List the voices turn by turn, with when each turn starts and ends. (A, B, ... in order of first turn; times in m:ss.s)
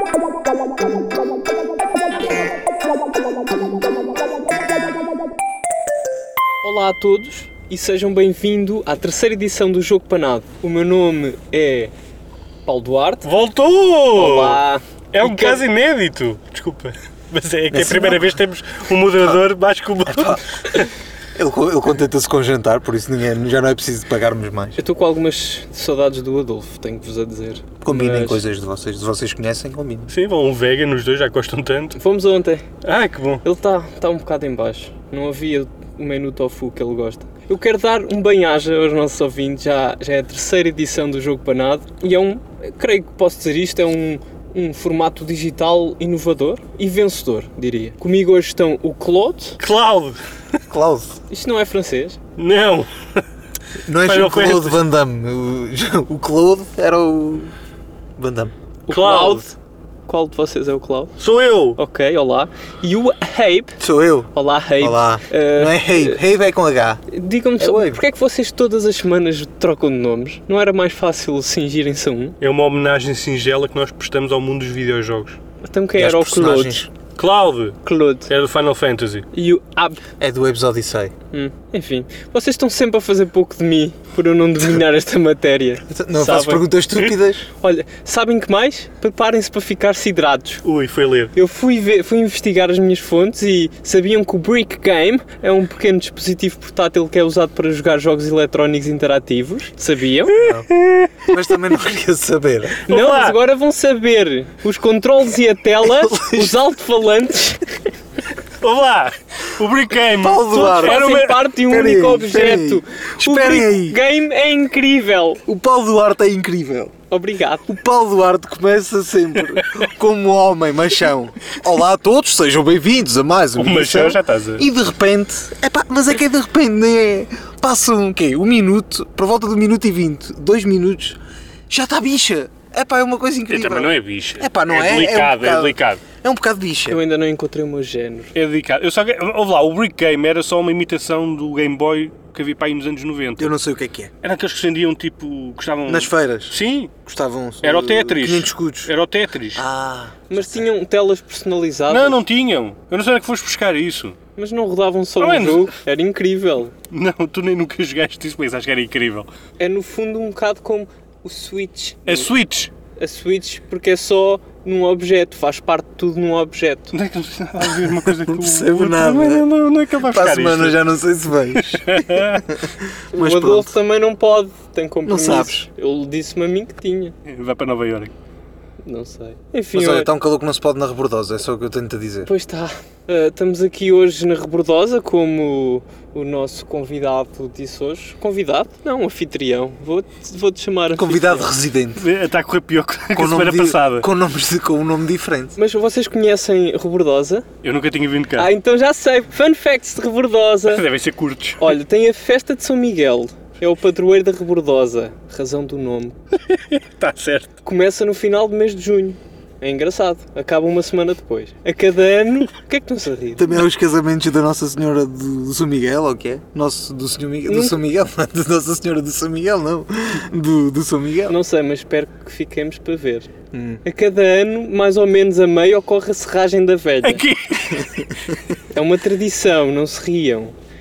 0:06.6-0:11.9 A
0:12.7-0:13.3 A
0:13.2-0:14.6 B
0:14.1-0:15.6 A
0:15.1-0:20.9 B
0:17.7-0:18.3 C
0:20.0-0:20.7 C
0:21.3-0:24.8 C
0:24.8-0:28.4 A
0:27.8-0:30.1 C
0:30.1-0:32.0 B
0:32.0-0:32.7 A
0:32.8-0:33.4 B
0:33.4-0:49.6 A
0:49.6-0:50.2 B
0:50.7-0:51.2 C
0:51.3-0:52.2 A
0:52.4-0:53.2 B
0:53.8-0:57.5 C
0:54.0-0:54.8 B
0:58.2-0:58.5 C
0:58.9-0:59.5 B
0:58.9-0:59.6 A
1:00.0-1:01.1 A
1:01.2-1:01.8 B
1:01.8-1:03.8 A
1:03.8-1:07.0 C
1:04.3-1:06.2 A
1:07.1-1:12.4 A
1:07.6-1:08.0 C
1:12.4-1:15.4 B
1:15.6-1:16.8 A
1:16.0-1:16.9 C
1:17.2-1:19.2 B
1:17.8-1:18.3 A
1:19.3-1:20.0 A
1:20.2-1:21.1 C
1:21.3-1:26.7 A
1:25.9-1:27.5 C
1:27.6-1:30.6 A
1:30.6-1:31.3 B
1:31.3-1:40.3 A
1:40.3-1:41.6 B
1:40.4-1:40.7 C
1:41.3-1:42.8 C
1:42.8-1:43.4 B
1:42.9-1:47.9 A
1:45.8-1:46.6 C
1:48.6-1:51.5 B
1:50.2-1:54.0 C
1:50.5-1:55.4 A
1:55.4-1:56.9 C
1:57.1-1:57.7 A
1:57.7-2:11.2 C
1:59.4-1:59.9 B
2:03.6-2:04.7 B
2:11.7-2:17.0 C
2:13.5-2:16.0 B
2:16.9-2:18.3 A
2:18.3-2:23.5 B
2:23.4-2:24.1 C
2:24.2-2:26.9 B
2:25.8-2:28.9 C
2:27.6-2:29.6 B
2:29.5-2:30.7 C
2:30.3-2:32.2 A
2:31.9-2:34.2 B
2:34.4-2:36.7 A
2:35.2-2:35.8 B
2:36.9-2:39.3 B
2:39.6-2:42.3 A
2:42.1-2:42.7 B
2:43.0-2:46.9 A
2:46.9-2:50.8 B
2:47.6-2:49.4 C
2:50.0-2:53.8 C
2:51.5-2:52.4 B
2:53.1-2:57.2 A
2:55.0-2:55.7 C
2:57.2-2:58.1 B
2:58.8-3:00.1 A
2:59.7-3:02.3 C
3:02.2-3:11.5 A
3:11.0-3:12.0 C
3:12.0-3:14.1 B
3:13.1-3:15.6 C
3:15.6-3:17.5 A
3:17.6-3:18.5 B
3:18.4-3:20.8 A
3:20.7-3:21.8 B
3:21.6-3:26.2 A
3:26.5-3:27.5 B
3:27.6-3:33.6 A
3:33.4-3:41.3 C
3:37.4-3:37.8 A
3:41.2-3:43.3 A
3:43.5-3:43.8 C
3:43.8-3:47.2 A
3:47.0-3:48.2 B
3:48.7-3:50.5 A